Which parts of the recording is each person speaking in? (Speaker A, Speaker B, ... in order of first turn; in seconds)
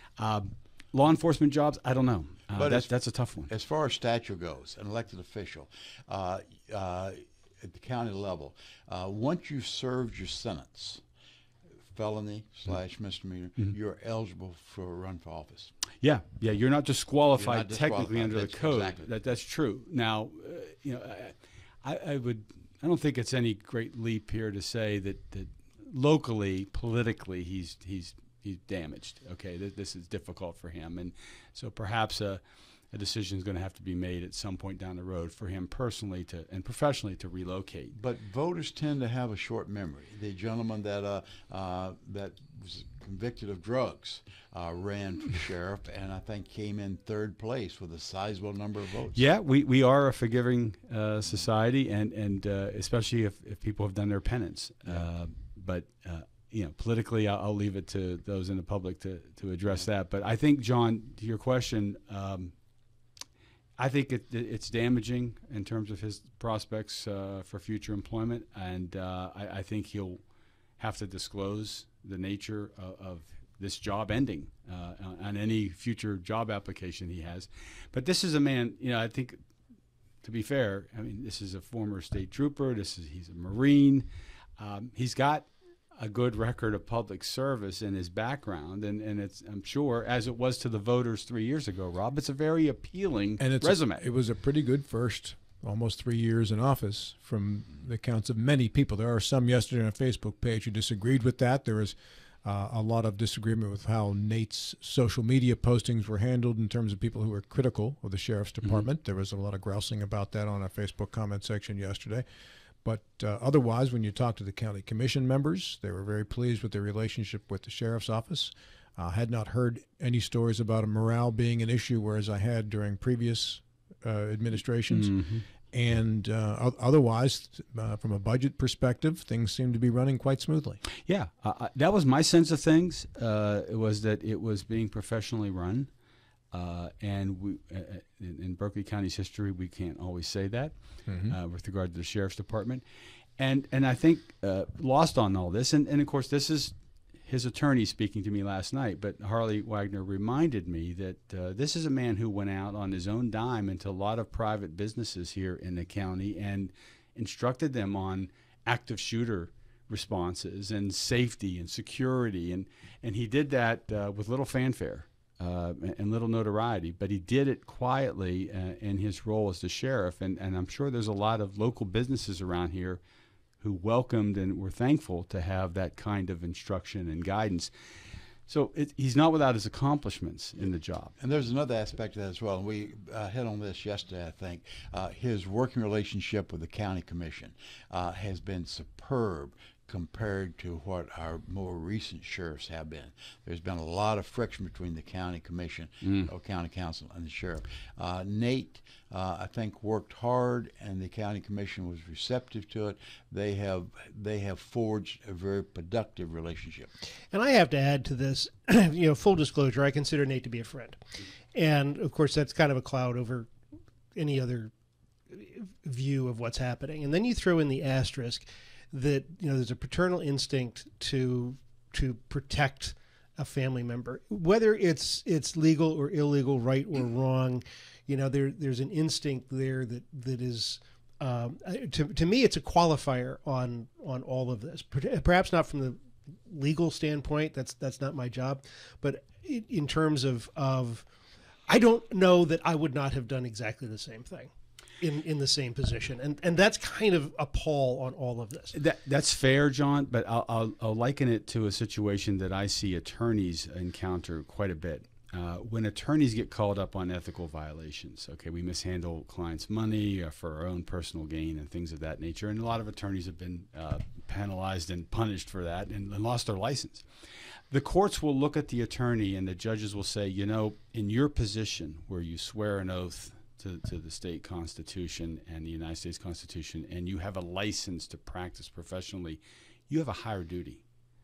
Speaker A: 0.2-3.5, 16.0-37.9, 49.1-62.5, 63.8-70.2, 70.8-79.4, 80.2-84.1, 84.6-94.0, 124.9-125.4, 131.0-135.9, 136.5-140.7, 141.3-142.8, 143.4-173.0, 173.6-177.7, 178.5-181.1, 248.7-267.0, 267.7-280.8
Speaker B: 2.5-2.9, 3.5-11.0, 11.9-15.7, 17.4-19.1, 37.9-49.2, 181.2-206.9
Speaker C: 93.4-112.2, 112.8-125.2, 125.7-130.8, 141.1-141.3
Speaker D: 207.3-211.0, 211.5-213.5, 214.1-214.7, 215.3-241.1, 241.7-248.7